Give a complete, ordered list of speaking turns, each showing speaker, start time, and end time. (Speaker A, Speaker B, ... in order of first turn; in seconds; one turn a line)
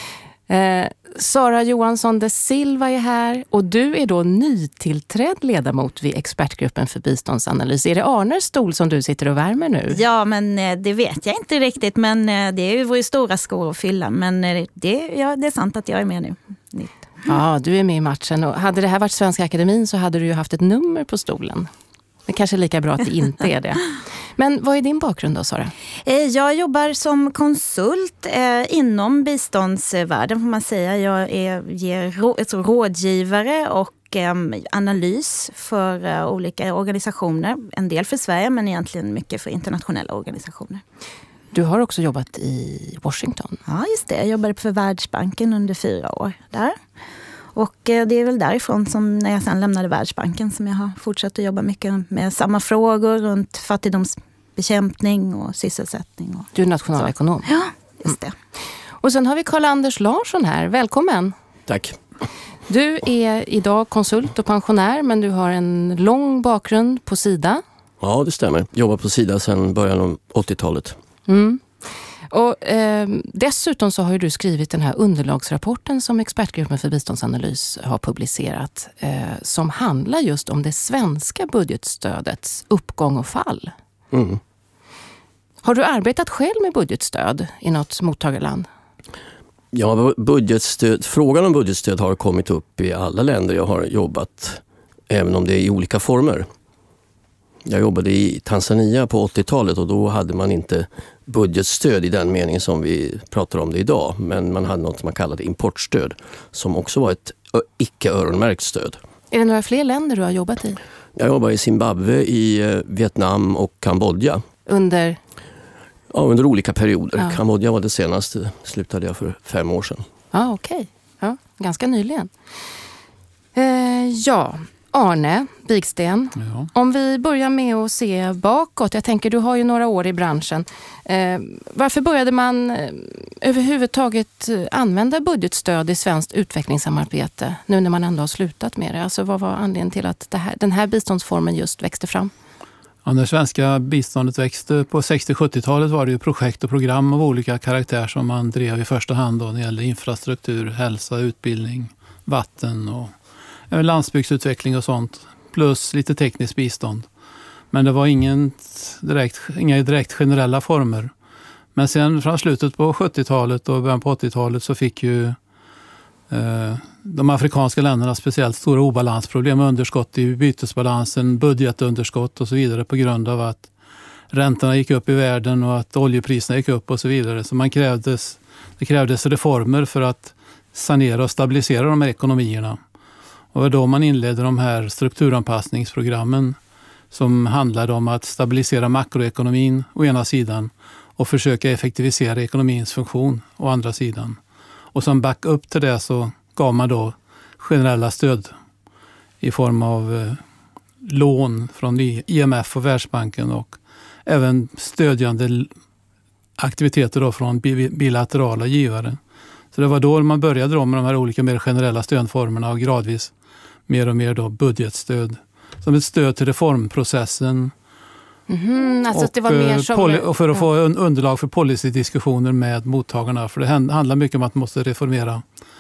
Speaker A: 0.5-10.0
Speaker B: 9.9-16.9
Speaker A: 17.3-21.7
Speaker A: 22.3-25.7
Speaker B: 26.1-40.8
Speaker A: 41.5-43.6
Speaker B: 43.7-46.8
Speaker B: 47.5-56.5
Speaker A: 56.5-57.5
Speaker B: 57.5-58.4
Speaker A: 59.0-61.3
Speaker C: 61.7-62.0
Speaker A: 62.7-67.6
Speaker C: 68.0-71.0
Speaker A: 71.3-71.7
Speaker A: 72.3-83.7
Speaker C: 84.1-84.4
Speaker A: 85.6-88.7
Speaker C: 89.7-96.5
Speaker C: 97.7-109.0
Speaker A: 109.3-110.8
Speaker C: 111.2-114.4
Speaker A: 114.7-115.2
Speaker C: 116.1-120.0
Speaker A: 120.3-122.3
Speaker A: 123.5-142.3
Speaker D: 126.4-126.7
Speaker D: 143.1-153.1
Speaker D: 153.7-157.1
Speaker D: 157.7-161.1
Speaker D: 161.8-165.4
Speaker D: 166.3-173.7
Speaker D: 174.3-182.8
Speaker D: 183.5-186.6
Speaker D: 187.1-194.4
Speaker D: 194.9-198.5
Speaker D: 199.4-200.4
Speaker D: 201.0-205.7
Speaker D: 206.6-209.2
Speaker D: 209.7-213.3
Speaker D: 213.9-217.7
Speaker A: 218.5-220.6
Speaker D: 219.1-225.4